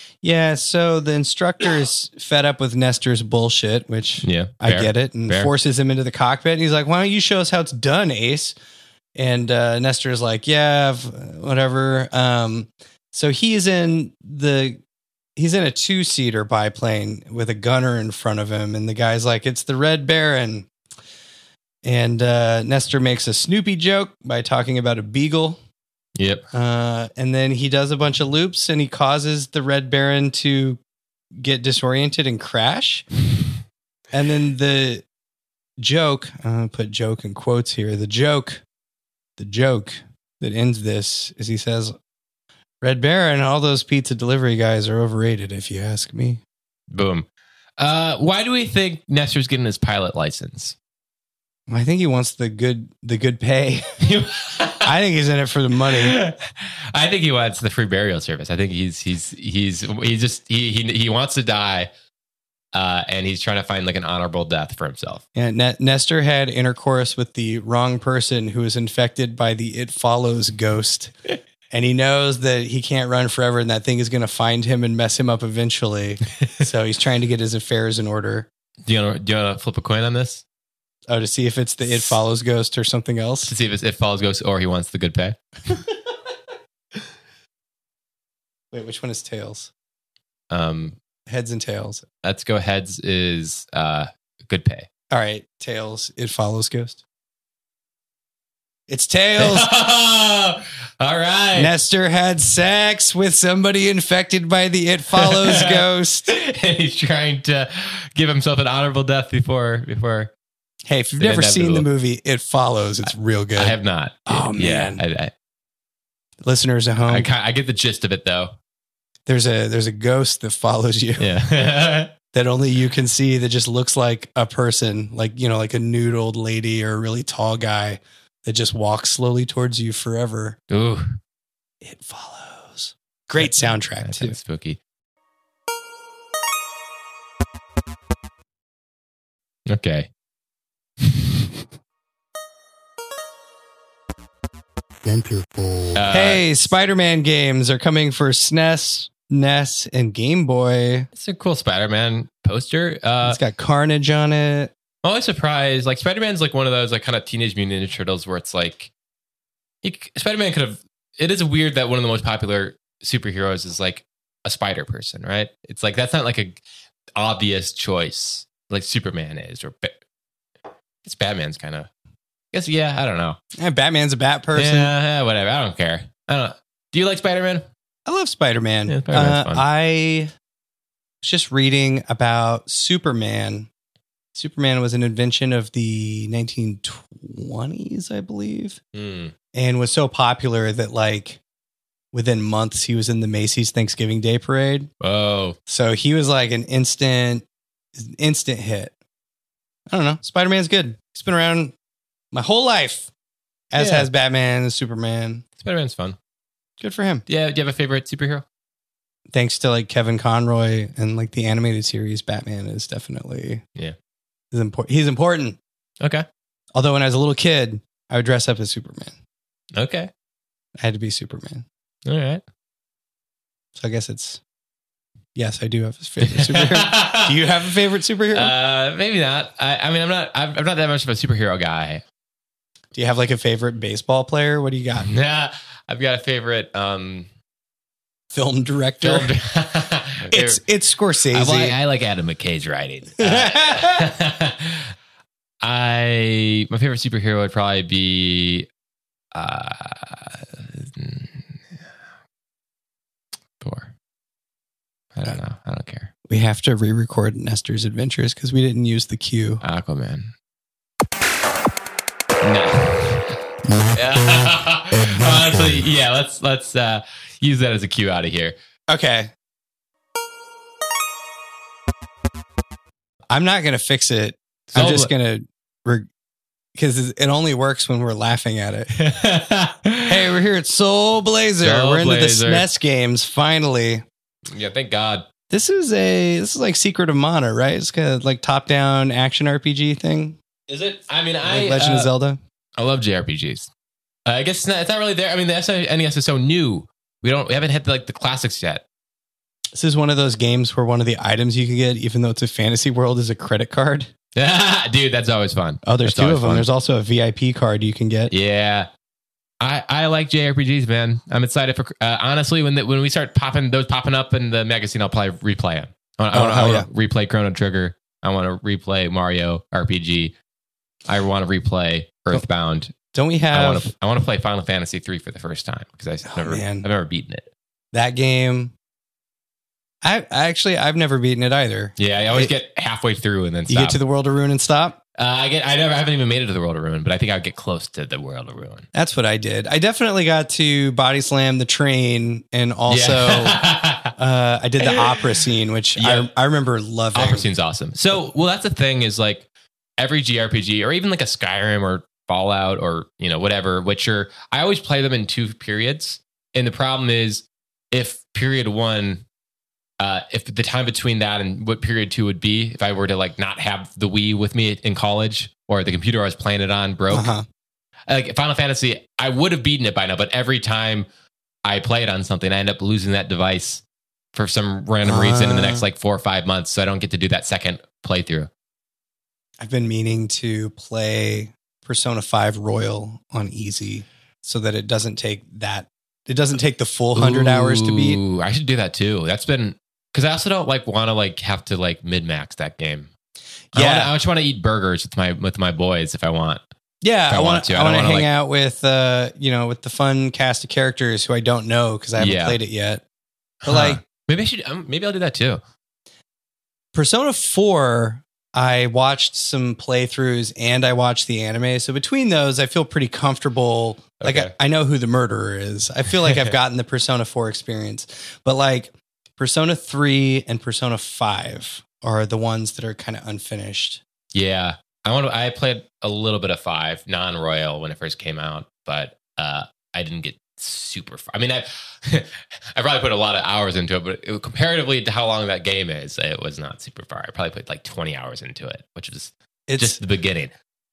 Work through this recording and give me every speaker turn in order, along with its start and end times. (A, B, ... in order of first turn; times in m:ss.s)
0:00.2-0:08.5 A
0:04.2-0:05.5 B
0:09.1-0:14.8 A
0:15.4-0:20.7 A
0:21.8-0:25.6 A
0:26.2-0:26.4 B
0:26.5-0:30.8 A
0:31.4-0:33.0 A
0:34.1-0:35.0 A
0:35.8-0:38.6 A
0:39.4-0:41.9 A
0:42.8-0:46.4 A
0:46.9-0:47.2 B
0:47.8-0:50.8 B
0:51.7-0:53.9 A
0:54.0-0:54.9 B
0:54.8-0:56.2 A
0:55.8-1:01.9 B
1:02.7-1:05.2 B
1:05.3-1:11.1 A
1:11.7-1:18.5 A
1:18.8-1:20.4 B
1:21.1-1:23.5 A
1:23.5-1:25.4 B
1:28.7-1:29.7 A
1:30.5-1:30.9 B
1:31.3-1:32.0 A
1:32.2-1:34.9 B
1:35.1-1:37.0 A
1:38.9-1:39.7 A
1:39.4-1:41.7 B
1:41.5-1:46.3 A
1:45.2-1:50.3 B
1:50.9-1:55.0 A
1:51.1-1:51.8 B
1:53.6-1:55.3 B
1:56.4-1:57.3 A
1:57.0-1:58.5 B
1:59.3-2:01.4 A
2:01.2-2:02.1 B
2:02.3-2:10.6 A
2:10.7-2:11.2 B
2:11.8-2:14.4 A
2:13.4-2:14.8 B
2:19.7-2:20.1 B
2:21.0-2:21.4 B
2:25.0-2:26.0 C
2:25.9-2:26.4 B
2:26.1-2:31.1 A
2:31.1-2:33.4 B
2:33.2-2:34.7 A
2:35.0-2:38.9 B
2:39.8-2:46.6 B
2:47.2-2:50.0 B
2:51.0-2:51.9 B
2:52.5-2:53.4 B
2:53.6-2:54.9 A
2:54.5-2:57.7 B
2:58.1-3:00.3 A
2:58.9-2:59.6 B
3:01.2-3:03.7 A
3:04.3-3:08.8 A
3:08.9-3:09.3 B
3:09.5-3:11.4 A
3:12.1-3:14.9 A
3:15.0-3:15.6 B
3:15.7-3:17.4 A
3:18.0-3:18.9 A
3:19.9-3:21.7 A
3:22.3-3:23.1 A
3:23.7-3:25.4 A
3:23.8-3:24.1 B
3:25.6-3:26.2 B
3:26.8-3:27.2 A
3:27.3-3:28.4 B
3:29.3-3:33.6 A
3:34.5-3:35.6 A
3:36.0-3:36.2 B
3:36.7-3:39.1 A
3:39.7-3:40.1 B
3:40.8-3:41.6 A
3:42.0-3:42.4 B
3:43.7-3:44.4 A
3:45.4-3:48.5 A
3:46.2-3:47.4 B
3:48.3-3:52.0 B
3:52.9-3:55.1 A
3:55.0-3:57.3 B
3:58.3-3:59.3 A
3:59.0-4:00.6 B
4:00.3-4:01.8 A
4:01.3-4:04.9 B
4:03.2-4:04.1 A
4:05.6-4:08.7 B
4:09.3-4:11.8 B
4:13.6-4:13.9 B
4:15.1-4:16.1 B
4:16.3-4:19.6 A
4:19.6-4:20.3 B
4:22.4-4:23.4 B
4:23.6-4:25.9 C
4:23.9-4:28.6 B
4:28.9-4:29.3 A
4:33.3-4:36.1 A
4:34.7-4:35.1 B
4:36.8-4:38.9 A
4:38.9-4:40.2 B
4:40.0-4:44.0 A
4:41.6-4:42.6 B
4:44.4-4:45.3 B
4:45.5-4:50.4 A
4:50.7-4:52.1 B
4:51.4-4:52.4 A
4:52.8-4:53.7 B
4:54.2-4:58.8 B
4:59.7-5:04.1 A
5:04.3-5:06.6 B
5:05.8-5:08.3 A
5:08.3-5:08.9 B
5:09.6-5:20.3 B
5:16.3-5:16.9 A
5:21.1-5:22.9 B
5:23.1-5:23.9 A
5:23.5-5:27.5 B
5:26.3-5:26.8 A
5:27.9-5:28.7 A
5:30.0-5:32.5 A
5:32.0-5:34.0 B
5:33.7-5:35.0 A
5:35.2-5:38.8 B
5:38.9-5:47.4 A
5:42.9-5:44.1 B
5:44.9-5:45.2 B
5:46.0-5:46.3 B
5:47.1-5:49.4 B
5:50.0-5:59.2 B
6:00.0-6:07.3 B
6:07.1-6:07.4 A
6:08.1-6:11.1 B
6:11.6-6:13.8 B
6:14.3-6:18.5 B
6:15.0-6:15.9 A
6:19.6-6:28.2 A
6:27.1-6:33.1 B
6:33.7-6:34.1 A
6:33.7-6:36.6 B
6:37.0-6:43.0 A
6:37.3-6:38.3 B
6:42.2-6:42.6 B
6:43.6-6:45.6 B
6:43.6-6:44.0 A
6:46.9-7:04.0 A
6:54.2-6:54.5 B
6:56.1-6:56.5 B
7:04.3-7:20.5 B
7:19.7-7:20.0 A